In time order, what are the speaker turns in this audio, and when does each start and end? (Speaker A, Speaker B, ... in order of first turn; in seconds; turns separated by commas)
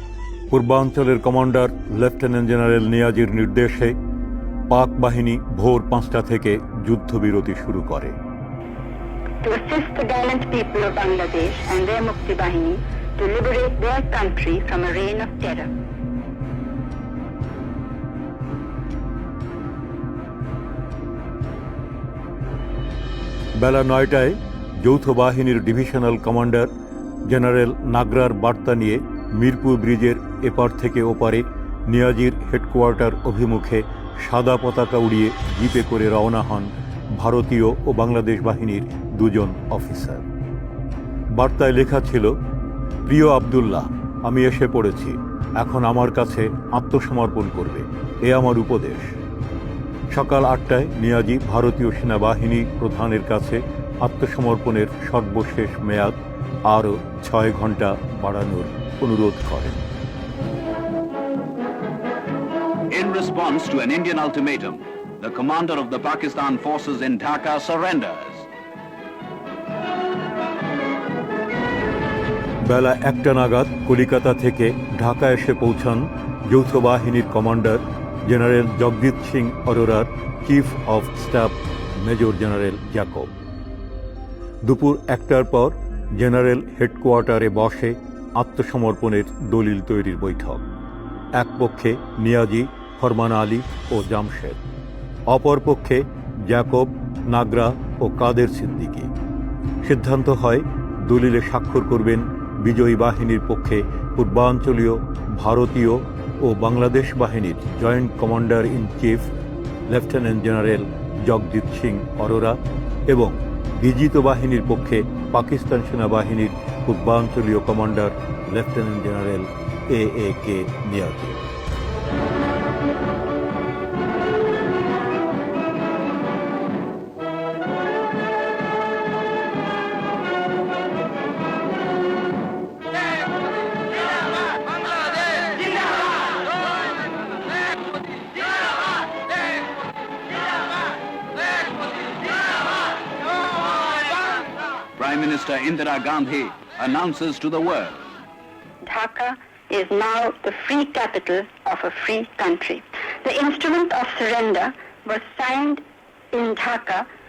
Speaker A: 0.5-3.9, Speaker A: 4.7-8.1, Speaker B: 9.4-15.7, Speaker A: 23.5-26.7, Speaker A: 27.2-40.2, Speaker A: 41.3-42.4, Speaker A: 43.0-49.2, Speaker A: 50.1-59.9, Speaker C: 62.9-68.5, Speaker A: 72.6-83.3, Speaker A: 84.6-90.6, Speaker A: 91.3-94.6, Speaker A: 95.3-99.1, Speaker A: 99.8-109.3, Speaker A: 109.9-121.4, Speaker C: 145.0-148.0, Speaker B: 148.8-157.1